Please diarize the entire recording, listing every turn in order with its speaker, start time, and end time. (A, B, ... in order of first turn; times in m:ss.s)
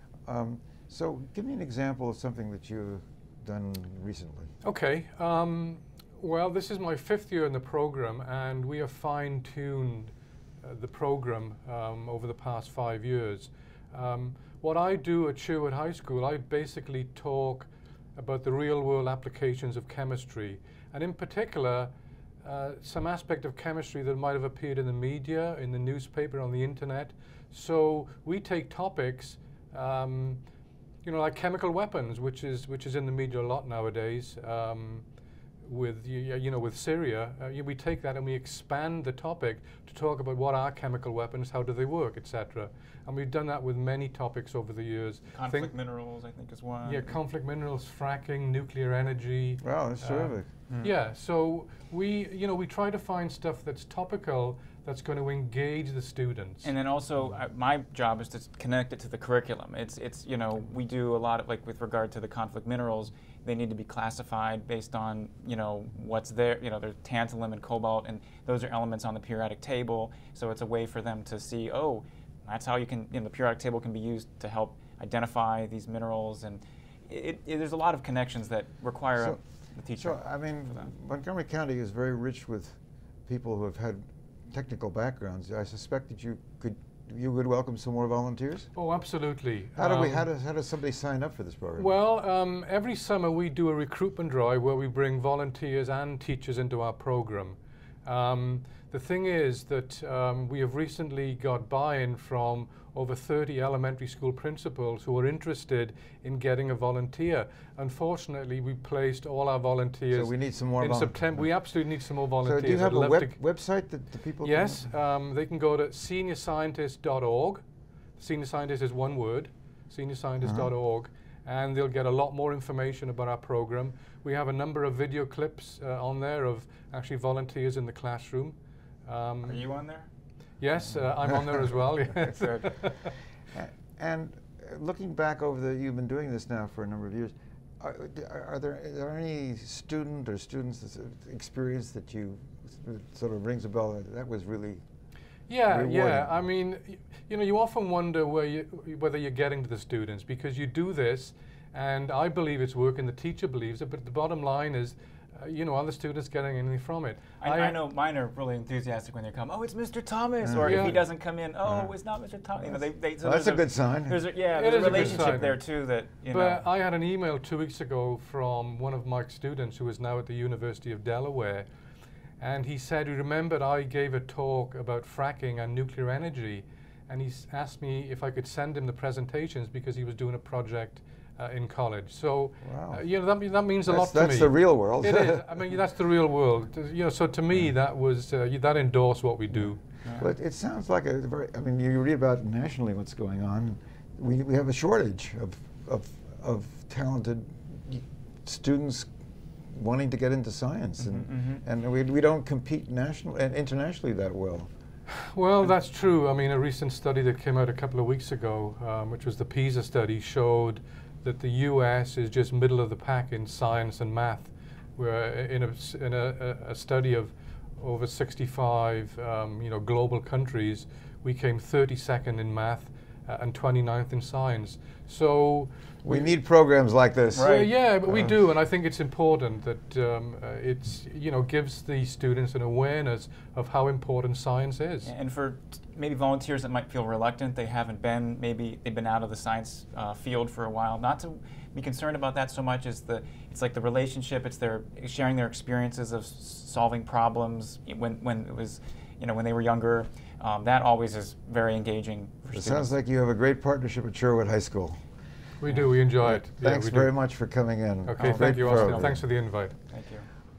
0:00.2-0:04.5 A
0:04.6-0:30.4 B
0:31.0-0:35.0 B
0:35.6-0:45.7 B
0:45.3-0:47.2 C
0:46.8-0:56.7 B
0:49.6-0:50.4 A
0:56.6-1:20.9 C
1:19.9-1:28.7 A
1:28.7-1:30.3 B
1:29.8-1:31.9 A
1:31.8-1:53.3 B
1:50.1-1:51.5 A
1:52.4-1:54.9 A
1:54.4-1:57.6 B
1:58.2-2:09.6 B
2:00.4-2:00.7 A
2:09.4-2:10.1 C
2:10.6-2:13.1 B
2:12.2-2:12.7 C
2:13.5-2:24.8 A
2:25.5-2:37.8 B
2:25.7-2:26.4 A
2:37.4-2:46.6 C
2:40.4-2:41.0 A
2:40.6-2:41.0 B
2:41.6-2:41.9 A
2:43.2-2:45.4 A
2:44.5-2:45.6 B
2:46.3-2:51.7 B
2:52.4-3:09.8 B
3:02.6-3:03.0 A
3:03.9-3:05.6 A
3:09.5-3:19.1 A
3:10.0-3:10.3 C
3:19.6-3:24.7 A
3:21.0-3:21.6 C
3:25.3-3:46.3 B
3:46.0-3:48.3 A
3:47.3-3:47.7 C
3:47.4-3:55.1 B
3:55.0-4:12.9 C
4:12.5-4:15.0 A
4:15.6-4:17.1 B
4:16.2-4:19.2 A
4:18.1-4:19.7 B
4:18.2-4:19.2 C
4:19.9-4:20.3 C